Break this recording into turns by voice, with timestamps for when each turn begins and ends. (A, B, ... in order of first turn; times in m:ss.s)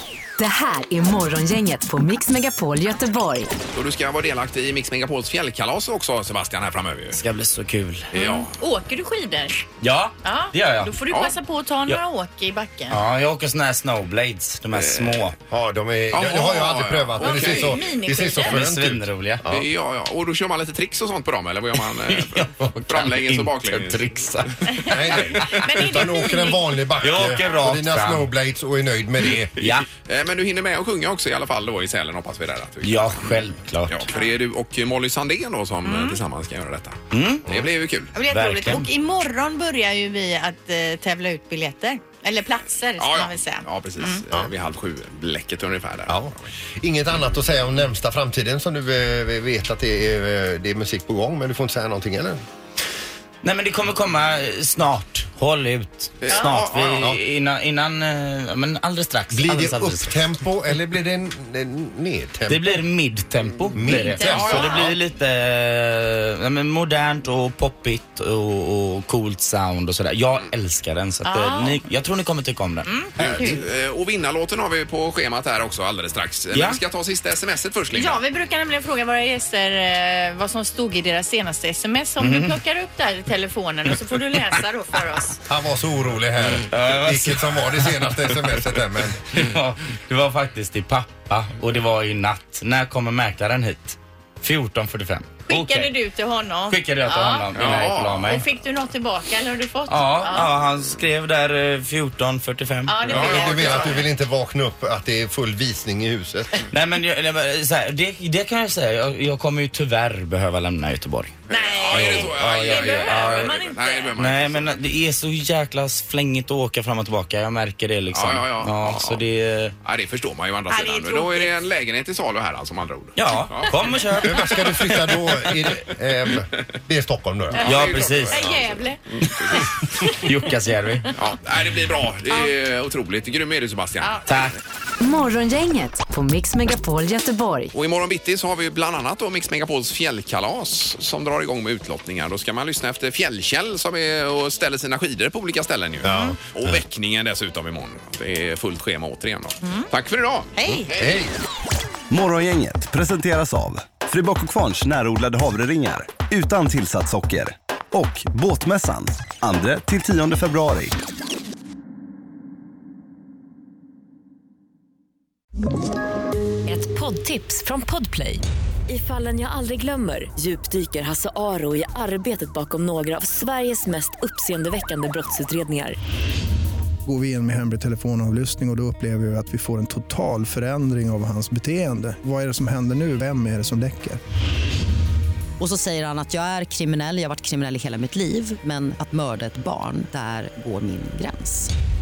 0:00.4-0:03.5 A
0:03.7-0:07.2 B
0:07.1-0:08.1 C
0:08.1-0:08.5 B
0:08.1-0:09.6 D
0:09.8-0:10.9 C
0:10.2-0:13.0 D
0:11.1-0:11.3 B
0:12.9-0:15.3 C
0:14.7-0:15.2 B
0:15.5-0:19.7 E
0:16.1-0:17.8 B
0:17.2-0:18.5 D
0:18.4-0:19.4 C
0:19.5-0:24.0 B
0:21.9-0:25.6 C
0:24.7-0:26.6 D
0:24.9-0:29.5 E
0:27.0-0:28.3 C
0:29.6-0:29.8 C
0:30.0-0:33.3 B
0:32.8-0:34.1 C
0:33.9-0:38.1 B
0:35.8-0:36.2 D
0:37.1-0:37.4 C
0:38.1-0:44.2 D
0:38.3-0:38.9 C
0:43.0-0:46.5 B
0:46.1-0:52.4 E
0:53.4-1:00.4 C
0:56.2-0:57.1 B
0:59.3-1:02.8 E
1:02.5-1:12.9 C
1:03.7-1:04.9 E
1:03.9-1:04.9 D
1:04.2-1:04.9 B
1:11.2-1:11.8 D
1:12.8-1:13.6 D
1:13.2-1:18.2 B
1:16.5-1:16.8 C
1:17.9-1:25.4 D
1:22.2-1:22.6 C
1:25.5-1:29.3 E
1:26.7-1:28.1 C
1:29.3-1:35.9 C
1:35.5-1:40.5 D
1:36.7-1:38.4 C
1:37.5-1:38.3 B
1:39.9-1:43.4 C
1:42.9-1:44.0 D
1:43.1-1:43.9 B
1:43.1-1:46.6 E
1:46.7-1:53.6 C
1:51.5-1:54.1 D
1:51.5-1:54.7 B
1:54.2-1:59.7 C
1:58.1-1:59.2 B
1:59.8-2:03.7 B
2:00.7-2:01.5 D
2:03.2-2:05.2 C
2:04.2-2:08.0 E
2:07.5-2:09.7 B
2:07.6-2:08.4 C
2:08.3-2:10.3 D
2:10.1-2:11.1 C
2:11.1-2:14.3 B
2:14.3-2:14.6 C
2:15.0-2:17.7 A
2:17.7-2:31.2 B
2:26.0-2:26.8 E
2:26.0-2:26.4 D
2:29.6-2:29.9 D
2:30.6-2:30.9 D
2:30.6-2:31.3 E
2:32.1-2:40.9 F
2:46.7-2:56.0 G
2:57.0-3:04.2 H
3:05.6-3:11.7 I